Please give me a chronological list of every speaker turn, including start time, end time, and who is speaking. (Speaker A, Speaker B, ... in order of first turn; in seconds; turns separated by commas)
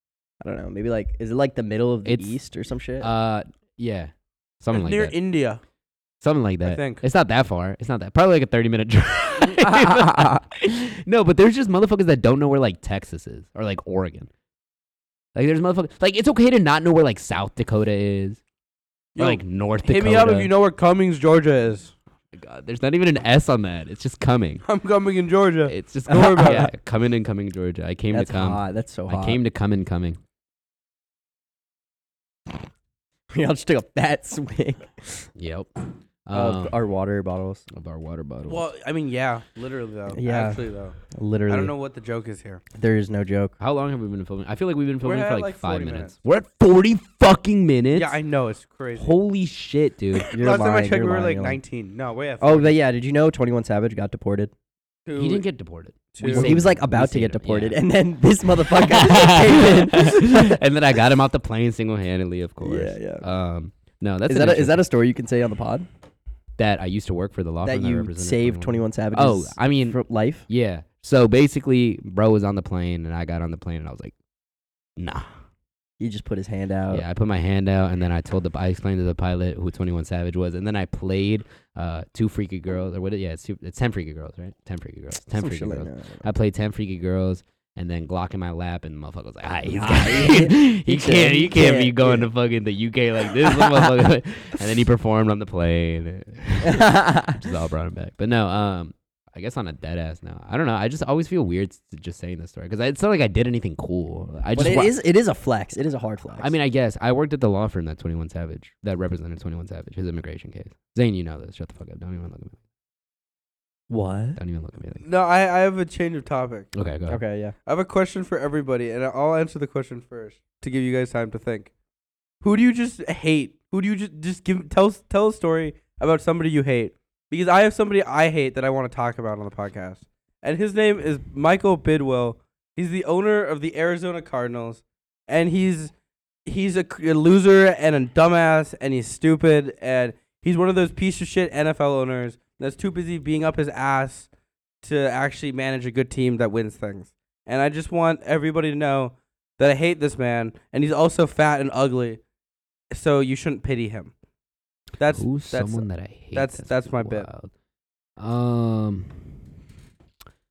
Speaker A: 0.4-3.1, Speaker B: 2.0-2.4, Speaker B: 3.0-5.2, Speaker C: 4.7-5.6, Speaker B: 6.2-14.3, Speaker C: 6.7-7.0, Speaker A: 9.5-10.4, Speaker B: 15.3-18.4, Speaker C: 19.2-21.9, Speaker B: 19.2-20.5, Speaker B: 22.3-24.6, Speaker C: 24.7-26.6, Speaker B: 25.7-30.2, Speaker A: 26.1-26.7, Speaker A: 28.1-29.4, Speaker A: 33.3-35.3, Speaker B: 35.4-35.7, Speaker B: 36.3-36.8, Speaker A: 36.3-37.7, Speaker B: 37.7-38.6, Speaker C: 38.5-41.0, Speaker A: 40.1-41.7, Speaker C: 41.5-42.6, Speaker A: 42.8-43.5, Speaker B: 43.6-48.2, Speaker C: 45.0-46.1, Speaker C: 48.0-49.2, Speaker B: 49.0-50.3, Speaker C: 50.3-52.7, Speaker A: 50.3-51.6, Speaker A: 52.4-54.5, Speaker C: 55.1-55.4, Speaker B: 55.2-57.8, Speaker C: 56.1-56.6, Speaker A: 56.2-60.6, Speaker B: 58.7-64.8, Speaker A: 62.6-63.2, Speaker A: 64.3-65.9, Speaker B: 66.6-74.1, Speaker A: 67.6-70.5, Speaker B: 75.0-75.3, Speaker A: 76.0-77.0, Speaker B: 76.9-105.0, Speaker A: 85.3-86.3, Speaker A: 89.7-92.3, Speaker A: 93.4-93.9, Speaker A: 96.6-97.4, Speaker A: 104.5-106.5, Speaker B: 106.4-112.6, Speaker A: 113.9-114.4, Speaker B: 114.4-115.0, Speaker C: 115.0-116.7, Speaker B: 116.7-117.2, Speaker A: 117.1-117.5, Speaker C: 117.7-121.7, Speaker C: 122.4-135.9, Speaker C: 136.5-144.3, Speaker C: 144.8-152.2, Speaker C: 152.9-154.1, Speaker C: 155.0-157.3, Speaker B: 155.1-157.5, Speaker B: 158.2-159.4